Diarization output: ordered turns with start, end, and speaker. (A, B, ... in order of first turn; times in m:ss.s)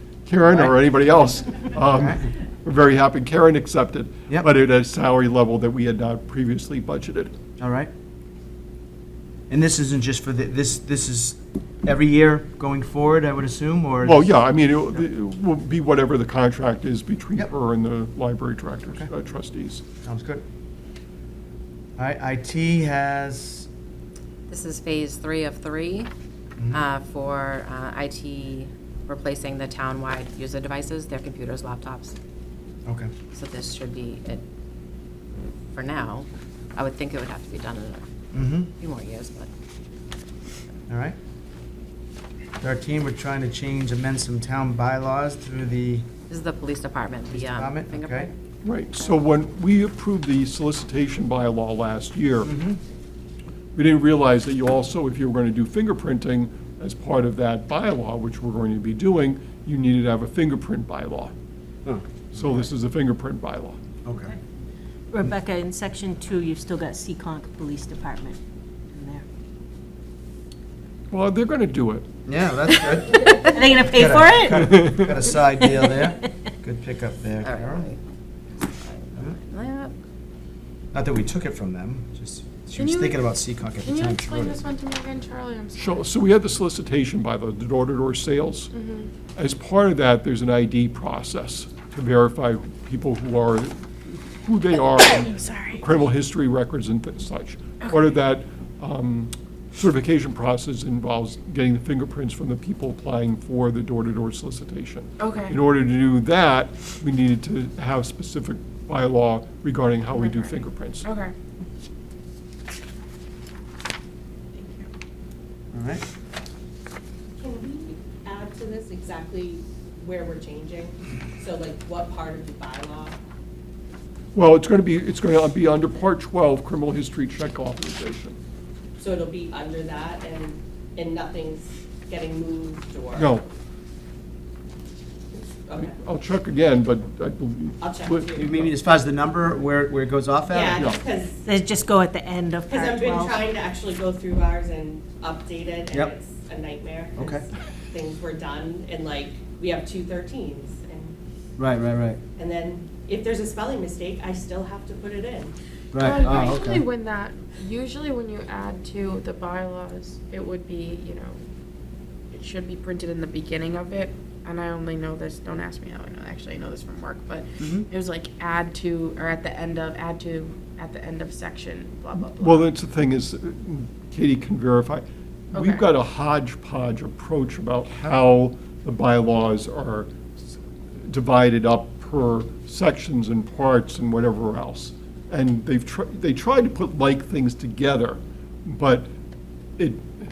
0:00.3-0:07.3 A
0:00.5-0:00.8 B
0:01.9-0:02.2 B
0:07.6-0:07.9 B
0:09.5-0:14.3 B
0:14.0-0:19.8 A
0:20.0-0:20.4 B
0:22.0-0:23.7 B
0:24.5-0:26.1 C
0:26.6-0:26.8 B
0:26.7-0:32.2 C
0:32.9-0:33.1 B
0:33.3-0:34.4 C
0:35.7-0:38.0 C
0:38.3-0:38.7 B
0:38.8-0:39.5 C
0:40.9-0:41.2 B
0:42.6-0:46.1 B
0:46.3-0:48.3 C
0:47.3-0:48.3 B
0:48.6-0:52.5 A
0:52.4-0:52.8 B
0:53.8-1:01.3 A
1:01.8-1:02.6 B
1:02.3-1:03.8 A
1:04.0-1:04.4 B
1:05.1-1:08.4 D
1:08.9-1:09.3 D
1:11.1-1:12.0 A
1:12.3-1:17.9 B
1:13.5-1:14.8 D
1:14.5-1:15.1 A
1:15.6-1:16.0 D
1:17.4-1:18.0 C
1:18.6-1:20.0 C
1:20.9-1:24.6 B
1:22.8-1:23.2 E
1:23.8-1:26.1 E
1:25.8-1:28.7 A
1:28.7-1:29.1 E
1:29.4-1:51.1 A
1:34.7-1:35.8 E
1:45.2-1:45.6 E
1:50.2-1:51.3 E
1:54.5-1:54.9 E
1:55.7-1:56.0 B
1:57.4-2:03.2 F
2:04.3-2:08.4 A
2:09.0-2:13.4 F
2:13.2-2:13.4 A
2:15.7-2:16.0 F
2:15.8-2:18.7 A
2:17.8-2:18.6 F
2:18.4-2:20.8 B
2:20.5-2:21.4 F
2:21.4-2:23.4 D
2:22.7-2:31.2 F
2:27.2-2:27.4 B
2:31.6-2:32.2 B
2:32.4-2:35.6 F
2:35.9-2:36.8 B
2:36.0-2:41.4 E
2:42.3-2:52.7 E
2:47.6-2:47.9 B
2:52.4-3:09.1 A
2:55.5-2:55.8 E
3:09.8-3:10.1 A